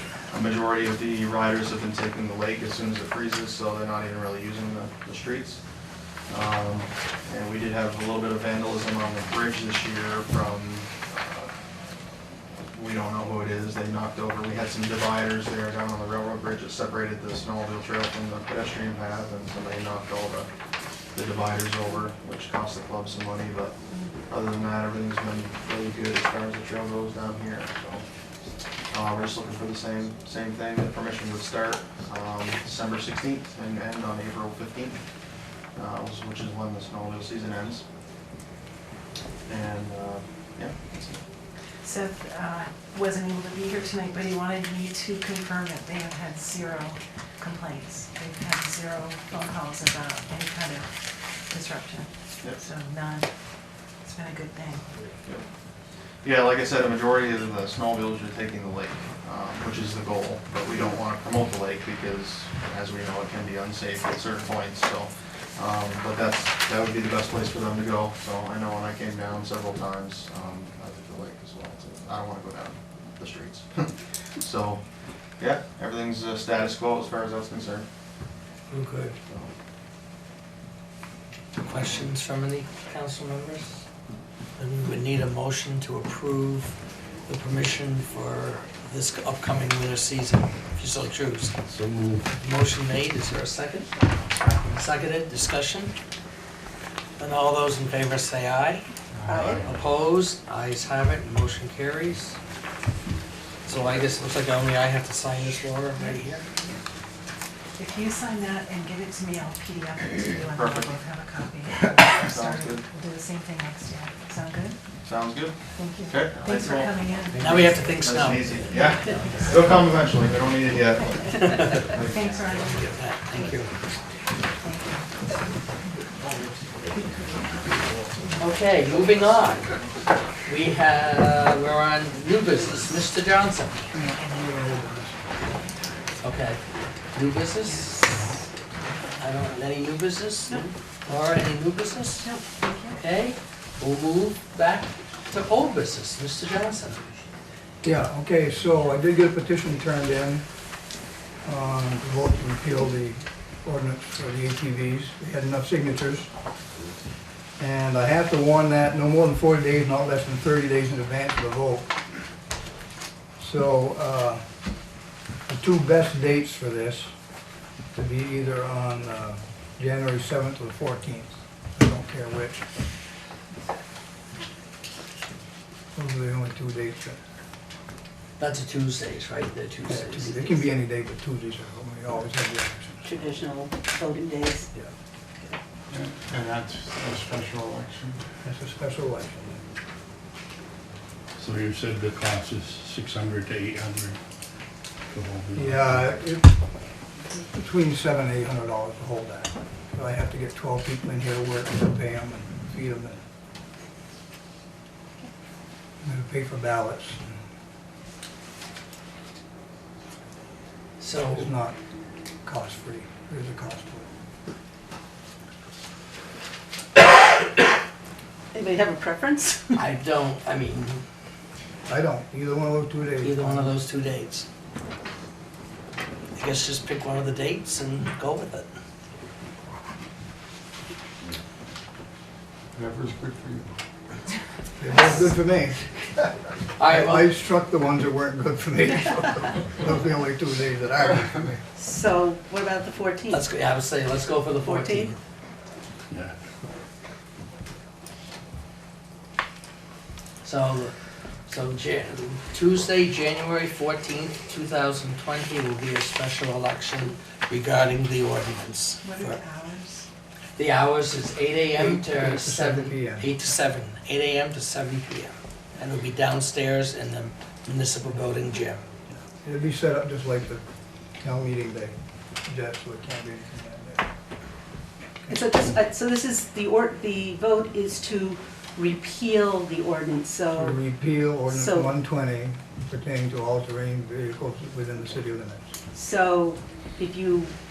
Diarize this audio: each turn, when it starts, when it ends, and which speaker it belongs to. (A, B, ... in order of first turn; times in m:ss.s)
0:00.3-0:05.6 A
0:06.3-0:11.5 A
0:12.7-0:20.5 A
0:21.1-0:28.0 A
0:28.9-0:35.0 A
0:35.8-0:37.8 A
0:39.4-0:41.2 A
0:41.8-0:50.9 B
0:51.5-0:53.3 B
0:54.0-0:54.9 B
0:56.2-1:14.8 A
1:15.4-1:17.9 A
1:18.7-1:19.2 C
1:19.3-1:19.5 A
1:21.6-1:23.8 C
1:24.6-1:26.8 C
1:27.3-1:31.6 C
1:31.7-1:32.3 D
1:32.4-1:33.9 C
1:34.7-1:35.9 C
1:37.2-1:38.8 C
1:39.2-1:39.5 E
1:39.3-1:39.6 F
1:39.3-1:42.4 C
1:43.7-1:46.5 C
1:47.8-1:54.8 B
1:50.4-1:50.9 A
1:52.1-1:52.9 A
1:55.0-2:02.8 A
1:56.3-1:59.6 B
1:57.3-1:58.9 C
1:59.1-1:59.6 F
2:01.4-2:02.0 C
2:01.4-2:03.4 B
2:02.5-2:03.7 C
2:04.5-2:05.1 B
2:08.4-2:09.7 C
2:10.4-2:13.9 C
2:13.9-2:15.2 G
2:16.2-2:16.6 C
2:17.1-2:18.1 C
2:18.0-2:18.4 B
2:19.2-2:22.3 C
2:22.2-2:23.0 B
2:23.0-2:27.0 C
2:27.8-2:30.5 G
2:31.4-2:36.3 G
2:37.6-2:42.0 G
2:43.4-2:44.6 G
2:45.5-2:47.2 G
2:47.9-2:52.7 G
2:55.9-2:57.2 G
2:58.4-3:00.7 C
2:59.8-3:03.1 G
3:03.1-3:04.7 F
3:05.9-3:08.2 E
3:08.4-3:09.6 G
3:11.4-3:14.2 D
3:15.1-3:16.1 D
3:15.5-3:16.5 G
3:17.3-3:23.2 G
3:26.0-3:27.3 G
3:31.0-3:31.5 C
3:31.3-3:31.8 G
3:32.4-3:34.1 G
3:38.5-3:39.8 F
3:39.8-3:41.0 C
3:41.8-3:43.8 G
3:43.2-3:44.5 C
3:46.4-3:48.7 C
3:52.7-3:53.7 E
3:54.8-3:55.8 G
3:56.8-3:57.3 C
3:56.8-4:01.5 G
4:01.8-4:03.4 F
4:03.3-4:05.2 C
4:04.6-4:05.1 F
4:10.4-4:10.9 C
4:11.5-4:19.4 C
4:19.0-4:20.1 B
4:20.6-4:28.8 C
4:21.7-4:23.3 G
4:29.2-4:30.6 G
4:31.2-4:34.1 G
4:35.3-4:40.7 F
4:40.5-4:45.7 G
4:41.5-4:41.9 F
4:45.9-4:47.6 F